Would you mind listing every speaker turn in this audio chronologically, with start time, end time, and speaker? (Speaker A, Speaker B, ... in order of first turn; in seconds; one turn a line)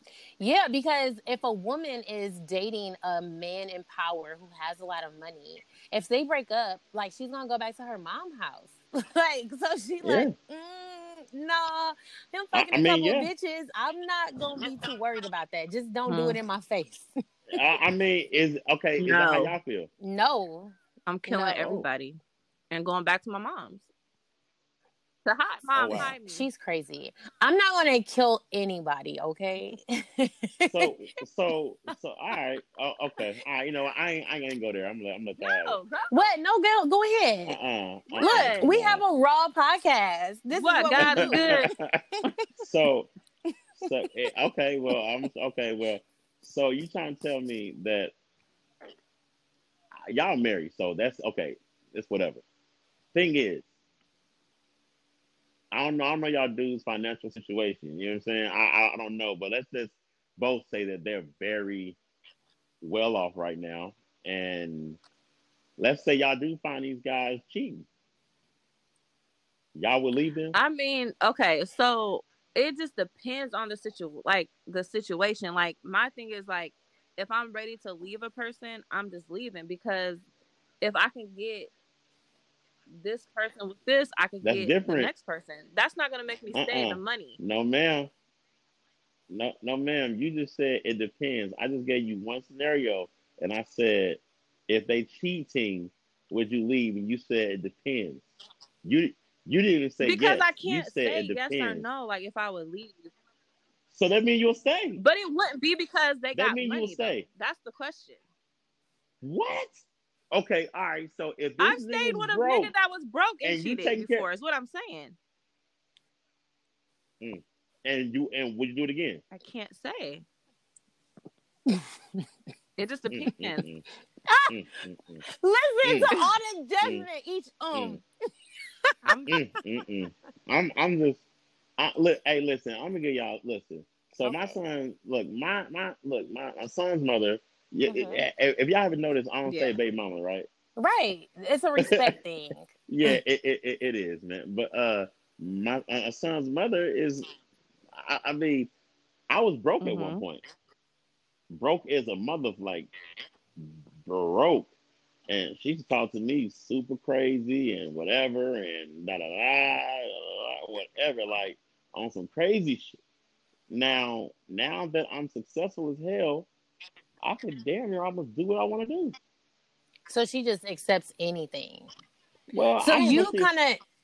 Speaker A: 0.4-17.1
Speaker B: 10.0-10.3
Speaker B: 12.5-13.3
Speaker C: 16.1-16.4
Speaker B: 17.5-19.9
Speaker C: 19.0-19.6
Speaker A: 20.0-20.8
Speaker C: 21.1-22.2
Speaker A: 21.3-21.8
Speaker C: 22.7-23.9
Speaker C: 25.2-26.5
Speaker B: 25.8-26.1
Speaker A: 25.9-30.9
Speaker B: 30.7-35.8
Speaker C: 35.4-36.3
Speaker A: 36.1-37.6
Speaker B: 37.5-39.0
Speaker C: 38.1-38.7
Speaker A: 38.2-41.7
Speaker C: 40.5-41.7
Speaker B: 41.0-42.0
Speaker B: 42.6-43.1
Speaker B: 43.8-48.1
Speaker B: 50.0-52.4
Speaker B: 53.1-53.6
Speaker B: 55.7-62.0
Speaker B: 62.8-65.0
Speaker B: 65.8-67.9
Speaker B: 69.8-70.6
Speaker C: 70.5-80.2
Speaker C: 80.8-81.7
Speaker C: 82.9-87.4
Speaker B: 84.4-85.1
Speaker B: 86.5-88.1
Speaker B: 89.3-98.3
Speaker B: 98.8-101.8
Speaker C: 100.0-103.1
Speaker B: 103.9-105.0
Speaker C: 105.0-108.2
Speaker B: 106.3-107.2
Speaker B: 109.2-112.7
Speaker C: 111.6-115.2
Speaker B: 113.4-114.3
Speaker B: 117.2-119.2
Speaker C: 119.3-120.2
Speaker A: 121.7-122.2
Speaker C: 122.8-123.6
Speaker B: 123.1-123.8
Speaker B: 124.5-125.2
Speaker A: 125.3-128.0
Speaker B: 125.8-126.1
Speaker B: 127.7-128.0
Speaker C: 129.1-129.4
Speaker B: 129.3-131.2
Speaker B: 131.8-140.5
Speaker A: 134.2-134.5
Speaker A: 137.9-138.2
Speaker C: 139.5-139.8
Speaker A: 140.8-142.7
Speaker B: 141.8-142.1
Speaker B: 142.9-147.3
Speaker B: 147.9-148.7
Speaker B: 149.3-150.4
Speaker C: 149.8-150.2
Speaker B: 151.5-152.9
Speaker B: 153.6-154.7
Speaker B: 155.3-163.0
Speaker B: 163.7-166.5
Speaker B: 167.2-169.2
Speaker A: 170.1-171.9
Speaker B: 172.5-173.5
Speaker A: 172.8-173.8